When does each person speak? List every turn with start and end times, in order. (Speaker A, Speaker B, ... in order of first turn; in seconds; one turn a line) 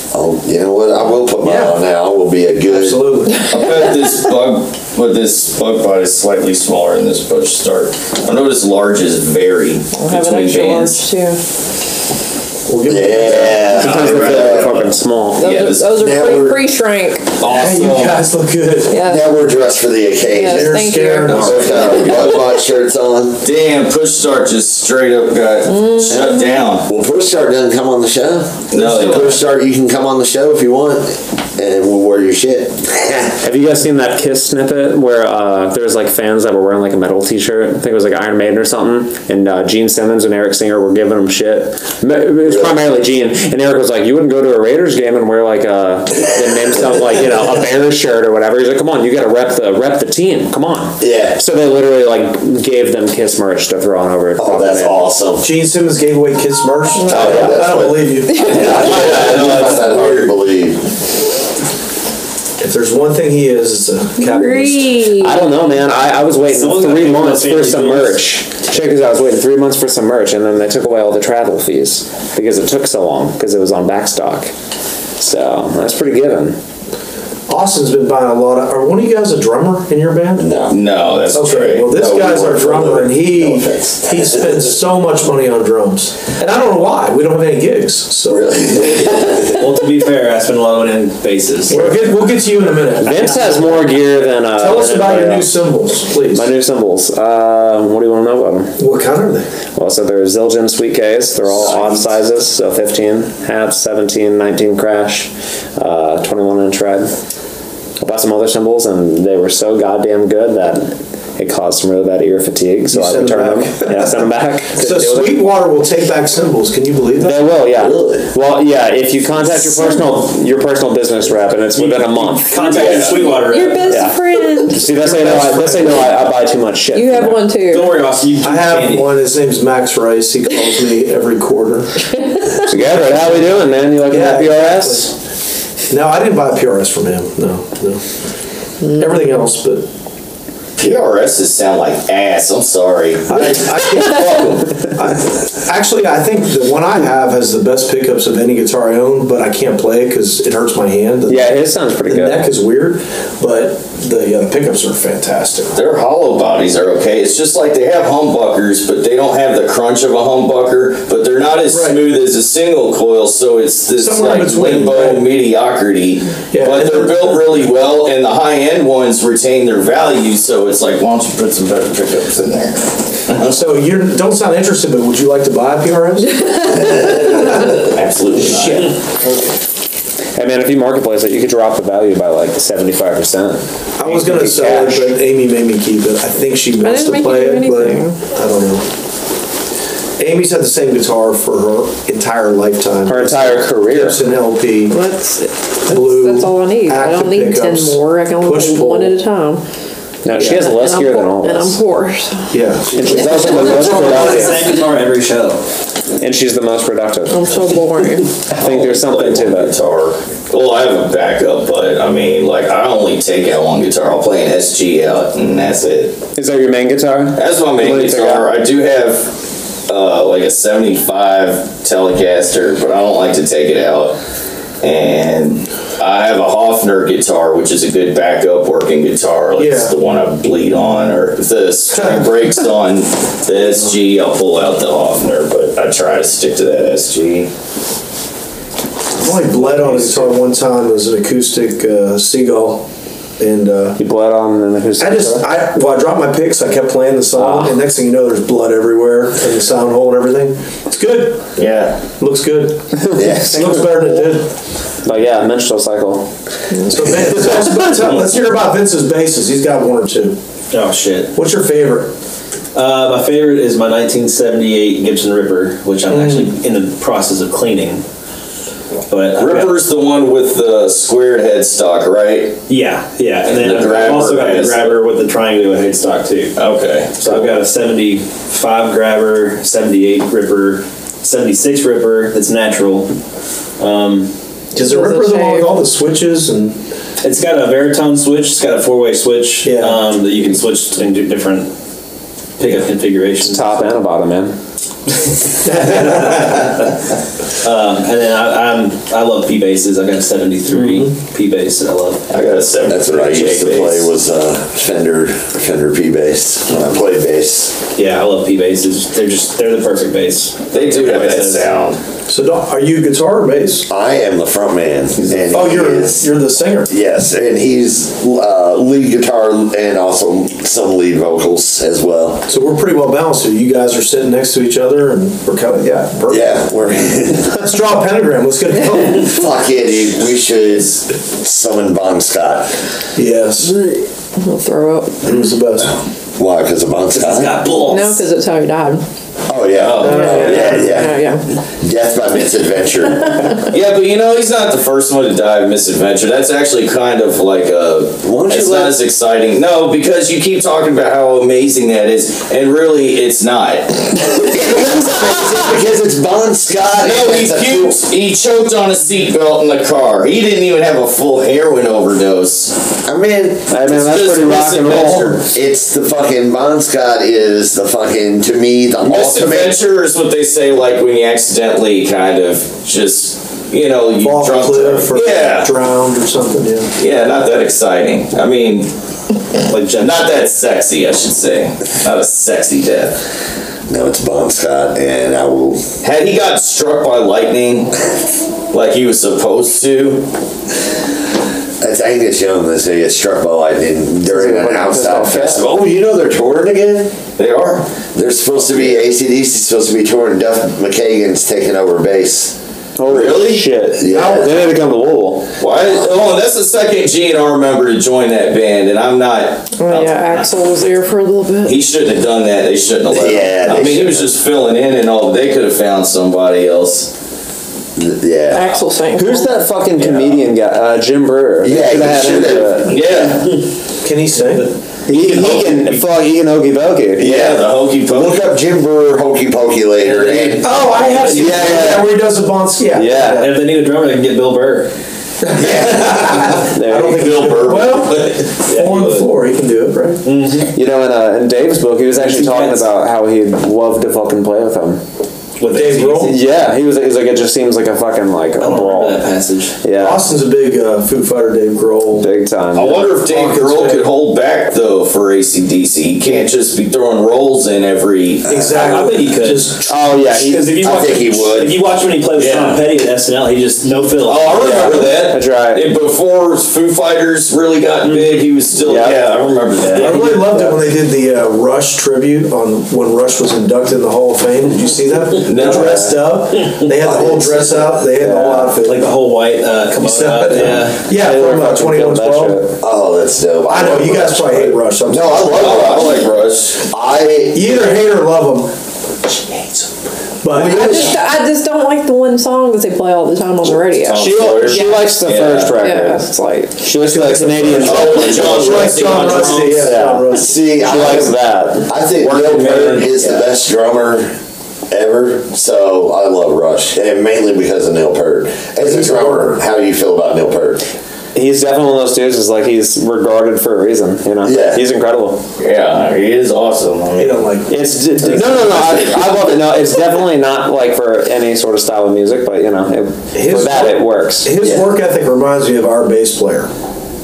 Speaker A: 0.1-3.1
Speaker B: 1.4-1.8
Speaker B: 2.7-3.5
Speaker C: 3.4-3.7
Speaker D: 3.5-11.1
Speaker C: 9.9-11.4
Speaker B: 12.7-13.7
Speaker A: 12.8-14.9
Speaker D: 13.5-15.9
Speaker E: 13.7-15.5
Speaker C: 15.4-17.4
Speaker A: 15.9-16.6
Speaker D: 17.4-18.3
Speaker B: 17.4-19.0
Speaker C: 18.9-19.3
Speaker A: 19.0-23.4
Speaker C: 20.3-22.2
Speaker B: 20.4-22.1
Speaker D: 21.3-22.4
Speaker D: 23.4-26.9
Speaker C: 25.7-26.5
Speaker A: 26.1-33.4
Speaker D: 28.7-29.5
Speaker B: 28.8-29.3
Speaker E: 33.4-55.1
Speaker A: 42.5-42.7
Speaker A: 46.7-47.2
Speaker A: 51.0-51.4
Speaker A: 54.4-55.5
Speaker B: 55.4-58.9
Speaker C: 56.9-57.4
Speaker A: 57.1-60.9
Speaker C: 58.3-58.7
Speaker D: 58.5-60.4
Speaker B: 62.6-65.0
Speaker C: 64.2-65.5
Speaker E: 65.1-74.5
Speaker F: 66.5-68.2
Speaker E: 75.2-76.6
Speaker B: 77.5-80.5
Speaker A: 80.4-80.8
Speaker D: 80.7-82.9
Speaker B: 81.3-88.6
Speaker A: 82.1-84.7
Speaker A: 88.3-89.6
Speaker F: 89.5-92.0
Speaker B: 91.7-93.9
Speaker E: 93.0-95.5
Speaker B: 94.5-96.5
Speaker E: 96.3-98.8
Speaker B: 98.8-99.5
Speaker E: 99.8-107.2
Speaker E: 108.0-115.4
Speaker B: 112.9-117.5
Speaker E: 117.2-122.8
Speaker A: 117.8-118.3
Speaker F: 121.8-124.0
Speaker D: 122.6-123.2
Speaker C: 122.6-124.8
Speaker E: 123.9-127.5
Speaker B: 124.8-126.2
Speaker C: 126.9-128.0
Speaker F: 127.7-129.2
Speaker B: 128.4-132.1
Speaker E: 132.6-135.1
Speaker B: 134.1-135.1
Speaker B: 135.9-138.0
Speaker B: 138.9-139.9
Speaker D: 140.8-144.7
Speaker B: 143.3-155.8
Speaker E: 151.3-152.5
Speaker D: 155.8-173.6
Speaker B: 161.7-162.0
Speaker B: 164.0-165.3
Speaker B: 166.5-167.4
Speaker B: 173.5-179.6
Speaker C: 176.4-177.6
Speaker D: 177.1-179.0
Speaker E: 180.4-185.1
Speaker B: 184.0-188.9
Speaker C: 186.8-188.3
Speaker B: 190.2-195.0
Speaker E: 193.1-194.2
Speaker C: 194.9-199.6
Speaker B: 195.9-199.2
Speaker E: 200.2-201.8
Speaker C: 200.3-203.4
Speaker B: 200.4-200.7
Speaker B: 202.5-203.2
Speaker E: 202.9-204.7
Speaker F: 203.5-205.6
Speaker E: 206.2-207.5
Speaker C: 207.3-208.3
Speaker E: 208.5-209.7
Speaker D: 208.5-216.2
Speaker E: 216.4-218.5
Speaker D: 217.4-219.3
Speaker D: 219.9-224.2
Speaker D: 224.8-237.5
Speaker B: 229.6-229.9
Speaker B: 232.0-232.3
Speaker B: 239.2-242.9
Speaker D: 239.7-240.3
Speaker B: 243.4-244.0
Speaker E: 244.0-245.5
Speaker B: 245.0-251.5
Speaker E: 247.3-247.8
Speaker D: 251.6-252.0
Speaker B: 252.2-254.5
Speaker E: 253.0-254.2
Speaker A: 253.1-253.7
Speaker E: 255.0-256.3
Speaker B: 256.8-260.4
Speaker F: 260.7-261.3
Speaker B: 261.3-262.1
Speaker F: 262.7-268.0
Speaker B: 266.1-266.5
Speaker F: 269.1-269.8
Speaker D: 269.4-272.6
Speaker F: 272.7-276.6
Speaker D: 273.4-275.0
Speaker D: 276.6-277.6
Speaker F: 277.2-283.1
Speaker F: 283.8-284.3
Speaker B: 284.7-286.8
Speaker C: 284.8-285.8
Speaker F: 287.2-291.7
Speaker B: 289.6-290.0
Speaker F: 292.6-293.9
Speaker E: 293.4-294.6
Speaker B: 295.6-296.6
Speaker F: 295.7-296.9
Speaker F: 297.6-302.3
Speaker D: 302.3-304.1
Speaker A: 302.9-307.8
Speaker F: 308.0-311.7
Speaker D: 310.7-312.0
Speaker B: 312.3-313.9
Speaker A: 313.9-316.3
Speaker B: 315.5-316.9
Speaker A: 316.9-322.5
Speaker B: 322.5-326.6
Speaker A: 326.3-327.6
Speaker B: 327.4-329.5
Speaker A: 329.2-332.8
Speaker B: 333.2-333.8
Speaker C: 334.4-335.4
Speaker B: 335.2-335.9
Speaker A: 335.8-337.7
Speaker F: 337.1-338.2
Speaker C: 337.8-339.0
Speaker A: 339.5-343.6
Speaker D: 339.8-340.6
Speaker B: 340.0-341.1
Speaker C: 340.0-341.4
Speaker D: 343.6-355.6
Speaker A: 348.2-349.0
Speaker A: 354.3-358.0
Speaker D: 357.0-362.9
Speaker A: 363.1-363.7
Speaker E: 363.7-365.4
Speaker D: 363.8-365.5
Speaker A: 365.4-369.8
Speaker D: 369.1-375.8
Speaker B: 374.2-376.9
Speaker D: 377.0-378.9
Speaker F: 379.7-380.4
Speaker D: 380.0-383.2
Speaker A: 383.9-385.9
Speaker D: 386.0-388.1
Speaker D: 388.7-390.3
Speaker A: 391.8-397.1
Speaker E: 394.3-395.7
Speaker D: 397.4-397.9
Speaker A: 398.1-402.6
Speaker D: 398.6-399.0
Speaker E: 403.0-405.5
Speaker D: 403.1-403.6
Speaker A: 403.9-404.7
Speaker D: 405.6-410.5
Speaker C: 409.8-411.8
Speaker D: 411.6-417.1
Speaker A: 413.1-414.3
Speaker A: 418.0-418.7
Speaker C: 418.5-419.6
Speaker E: 419.1-423.0
Speaker D: 420.1-420.3
Speaker A: 421.6-423.0
Speaker D: 422.9-423.6
Speaker B: 424.0-424.7
Speaker E: 425.1-427.3
Speaker D: 425.1-426.0
Speaker D: 427.2-428.4
Speaker A: 427.2-430.7
Speaker F: 430.1-431.9
Speaker B: 430.6-433.5
Speaker E: 431.4-432.1
Speaker E: 432.9-433.5
Speaker F: 433.1-434.9
Speaker B: 435.4-440.2
Speaker D: 435.6-438.5
Speaker E: 436.7-437.4
Speaker F: 438.6-439.3
Speaker F: 440.2-440.7
Speaker E: 440.7-445.0
Speaker F: 442.2-442.9
Speaker F: 445.6-446.5
Speaker B: 445.7-446.4
Speaker E: 446.2-449.2
Speaker F: 448.6-449.8
Speaker E: 449.8-450.2
Speaker B: 449.9-452.3
Speaker E: 452.2-453.1
Speaker D: 452.8-458.5
Speaker B: 453.1-454.1
Speaker B: 458.5-460.6
Speaker F: 458.7-465.1
Speaker E: 459.9-460.8
Speaker A: 460.8-461.8
Speaker D: 462.4-462.8
Speaker D: 464.2-470.3
Speaker E: 464.6-465.9
Speaker F: 468.1-468.4
Speaker E: 468.8-469.3
Speaker F: 469.8-470.6
Speaker B: 470.0-479.1
Speaker E: 470.2-470.8
Speaker D: 475.4-476.2
Speaker E: 475.6-476.1
Speaker A: 477.0-478.0
Speaker E: 478.2-478.7
Speaker F: 478.8-481.1
Speaker B: 479.9-482.6
Speaker E: 481.1-482.8
Speaker A: 482.8-487.9
Speaker B: 483.7-485.8
Speaker D: 485.6-486.8
Speaker B: 487.5-488.7
Speaker B: 490.4-491.2
Speaker A: 490.5-491.2
Speaker C: 490.7-495.0
Speaker D: 493.7-495.8
Speaker E: 494.2-496.3
Speaker C: 495.8-496.9
Speaker E: 496.8-498.6
Speaker B: 497.0-500.6
Speaker D: 497.8-500.0
Speaker E: 499.7-501.9
Speaker A: 500.3-504.3
Speaker D: 502.5-502.9
Speaker F: 502.6-503.4
Speaker A: 504.9-510.8
Speaker B: 508.8-509.5
Speaker E: 511.3-515.4
Speaker A: 514.4-514.9
Speaker D: 515.6-517.5
Speaker B: 517.2-518.8
Speaker E: 517.7-524.5
Speaker B: 523.3-526.7
Speaker A: 524.6-524.9